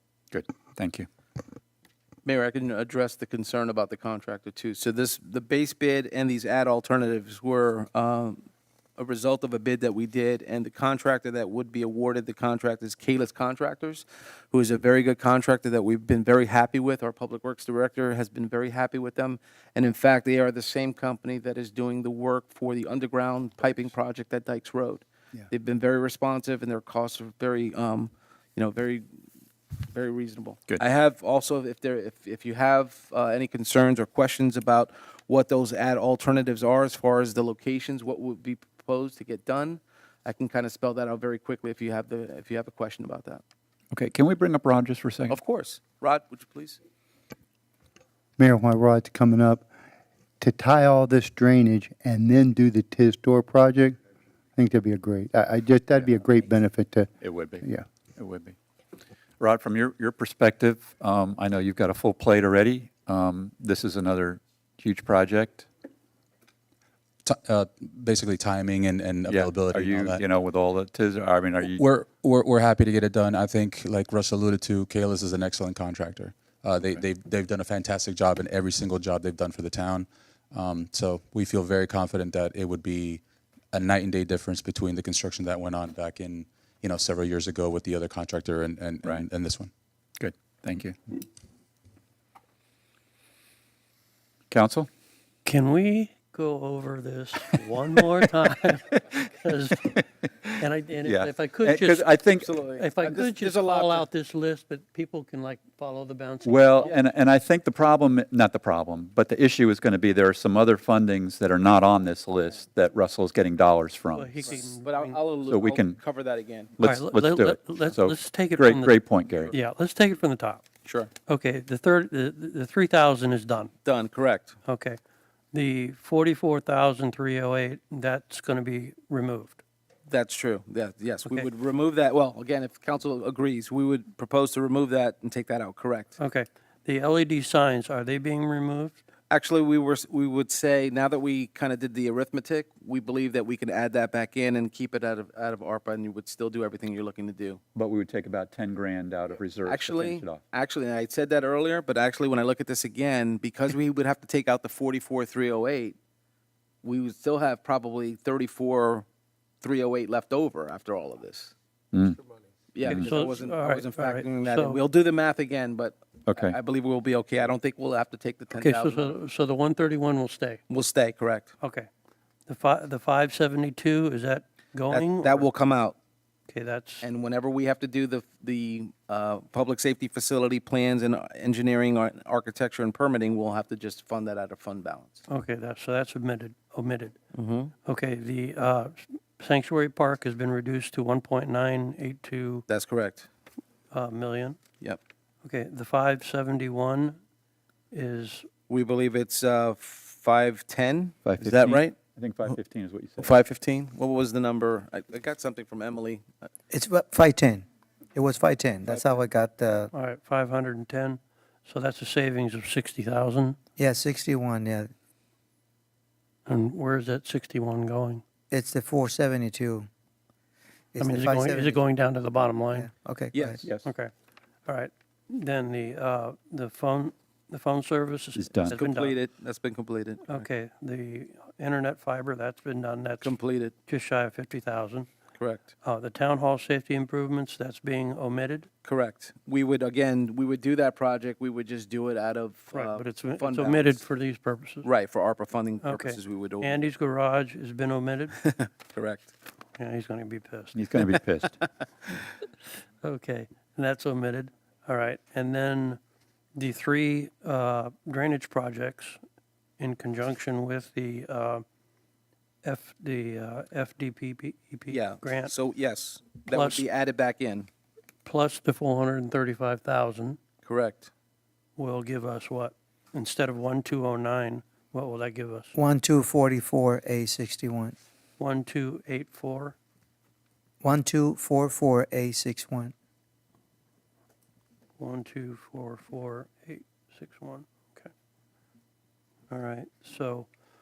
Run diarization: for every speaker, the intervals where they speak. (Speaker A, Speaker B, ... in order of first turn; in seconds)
Speaker A: 0.3-1.1, 43.9-45.4, 57.2-57.6, 58.2-58.5, 59.4-65.7, 69.2-71.8, 90.2-91.0, 94.5-94.9, 99.8-102.5, 106.4-114.4, 115.5-116.0, 116.8-119.5, 147.8-150.4, 161.9-162.2, 166.3-166.6, 201.2-203.3, 228.4-228.8, 250.8-251.6
Speaker B: 2.2-8.4, 9.0-29.1, 29.8-43.4, 45.3-46.8, 102.3-104.0, 114.5-116.7, 120.8-121.1, 123.8-124.6, 130.1-136.2, 139.3-147.6, 149.6-156.0, 156.8-159.1, 159.6-161.5, 162.7-169.2, 170.7-171.5, 174.9-176.0, 177.0-185.2, 187.3-187.7, 192.7-193.3, 198.7-201.9, 203.2-206.3, 223.3-223.9, 228.7-230.5, 233.2-233.7, 235.4-235.7, 238.8-244.0, 244.8-246.9, 248.4-249.3, 264.9-267.7, 270.6-271.1
Speaker C: 48.4-49.7, 50.4-54.0, 54.5-57.1
Speaker D: 67.2-70.2, 71.8-89.7
Speaker E: 95.4-99.9, 100.6-102.1, 102.8-106.9, 114.1-115.2, 116.8-119.0, 119.5-120.6, 121.3-123.7, 124.7-125.0, 125.5-129.6, 136.2-139.0, 162.8-164.8, 168.5-170.6, 171.6-171.9, 172.5-175.5, 176.5-177.1, 185.3-187.2, 187.8-192.7, 193.9-194.6, 195.4-197.2, 197.9-198.5, 209.9-213.6, 216.5-218.2, 221.0-222.9, 223.8-224.1, 224.7-229.2, 230.3-235.1, 235.8-238.7, 242.7-244.9, 245.8-248.4, 249.8-250.8, 253.0-256.0, 256.6-259.2, 259.8-261.6, 262.6-265.5, 266.5-266.9, 268.2-270.4, 271.8-275.7, 278.4-279.8, 285.0-288.1, 289.5-290.5
Speaker F: 206.7-209.9, 213.8-214.9, 218.5-219.9, 220.9-221.8, 222.8-223.6, 275.8-277.9, 280.8-282.9